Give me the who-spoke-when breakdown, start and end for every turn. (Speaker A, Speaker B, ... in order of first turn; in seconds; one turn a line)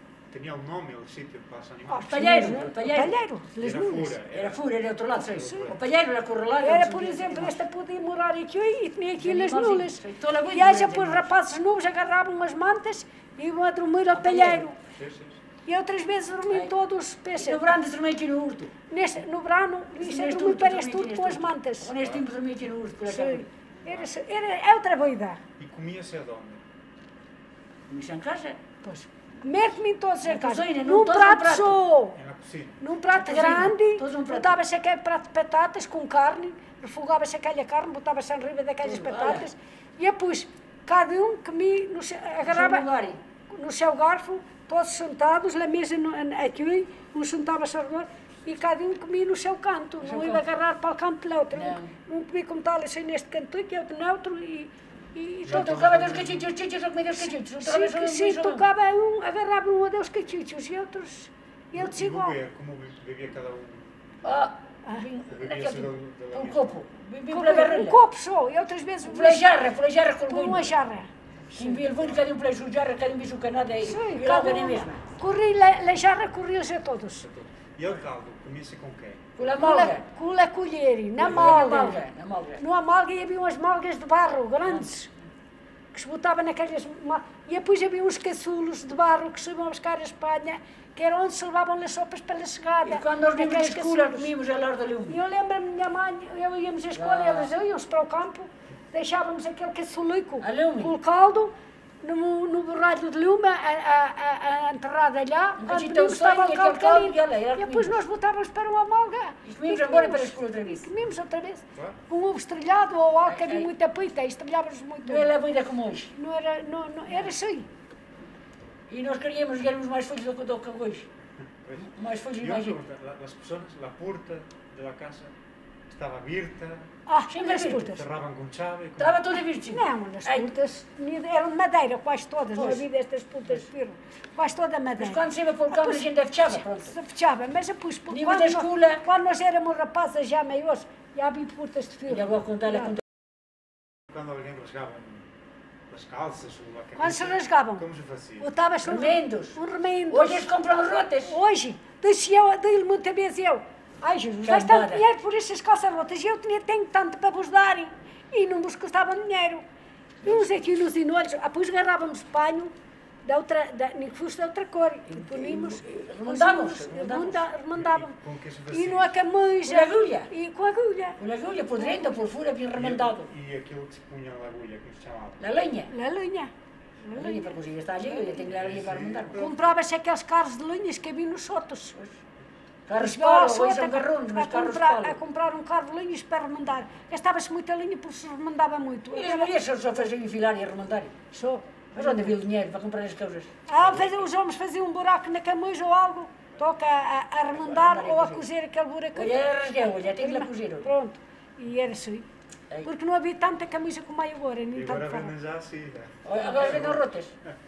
Speaker A: 0.3-2.6
Speaker B: 1.9-4.2
Speaker C: 2.1-3.1
Speaker A: 3.6-5.8
Speaker C: 4.3-7.6
Speaker B: 5.3-5.7
Speaker B: 6.6-14.8
Speaker C: 9.2-11.3
Speaker C: 14.1-14.7
Speaker A: 14.9-15.4
Speaker B: 15.7-17.6
Speaker C: 17.4-18.7
Speaker B: 18.9-21.9
Speaker C: 20.0-23.5
Speaker B: 23.1-25.4
Speaker A: 25.6-26.6
Speaker C: 27.9-28.6
Speaker B: 28.8-32.2
Speaker C: 30.2-31.8
Speaker A: 32.1-32.8
Speaker B: 32.8-42.9
Speaker C: 33.1-34.6
Speaker C: 38.8-39.5
Speaker C: 42.4-43.2
Speaker B: 43.5-56.3
Speaker C: 50.0-50.4
Speaker C: 51.5-51.9
Speaker A: 55.4-56.5
Speaker C: 55.5-58.7
Speaker B: 57.2-62.4
Speaker A: 61.7-64.1
Speaker C: 64.2-68.0
Speaker A: 65.2-66.8
Speaker B: 67.3-69.5
Speaker C: 69.0-70.7
Speaker B: 70.3-71.6
Speaker C: 71.5-75.0
Speaker A: 71.9-72.2
Speaker B: 73.8-77.2
Speaker A: 77.2-79.5
Speaker C: 79.4-80.0
Speaker B: 79.6-82.0
Speaker C: 81.2-82.6
Speaker A: 81.3-81.5
Speaker B: 82.6-85.1
Speaker C: 84.6-84.9
Speaker B: 85.9-94.3
Speaker C: 92.8-95.2
Speaker B: 95.1-115.3
Speaker C: 96.9-97.5
Speaker C: 100.4-100.9
Speaker C: 105.6-108.0
Speaker C: 109.4-110.9
Speaker A: 111.7-112.0
Speaker C: 113.2-113.7
Speaker C: 115.0-116.1
Speaker B: 116.2-117.7
Speaker C: 117.1-117.3
Speaker C: 118.9-121.1
Speaker A: 121.6-125.3
Speaker C: 121.8-122.8
Speaker A: 125.9-126.9
Speaker B: 127.1-128.0
Speaker C: 127.3-128.0
Speaker A: 127.9-129.2
Speaker C: 129.0-130.5
Speaker B: 129.7-143.0
Speaker C: 132.5-132.8
Speaker C: 135.0-136.9
Speaker C: 138.1-139.0
Speaker C: 142.1-143.0
Speaker A: 144.1-145.3
Speaker A: 145.9-148.5
Speaker B: 146.9-147.8
Speaker B: 148.4-150.5
Speaker C: 148.8-151.3
Speaker B: 151.2-159.6
Speaker C: 154.4-155.0
Speaker B: 160.2-168.1
Speaker C: 165.1-167.4
Speaker A: 167.7-169.1
Speaker B: 168.7-171.2
Speaker C: 169.6-170.3
Speaker C: 171.2-173.3
Speaker B: 171.7-172.2
Speaker A: 172.7-175.4
Speaker C: 175.4-175.9
Speaker B: 175.9-178.5
Speaker C: 177.1-179.4
Speaker A: 178.5-179.6
Speaker B: 179.3-181.9
Speaker C: 182.9-185.2
Speaker B: 183.0-189.5
Speaker C: 189.1-191.1
Speaker B: 191.3-192.3
Speaker C: 191.9-194.1
Speaker B: 193.7-202.2
Speaker C: 197.5-198.4
Speaker C: 199.1-200.9
Speaker B: 202.8-205.3
Speaker A: 204.7-207.0
Speaker C: 206.2-207.3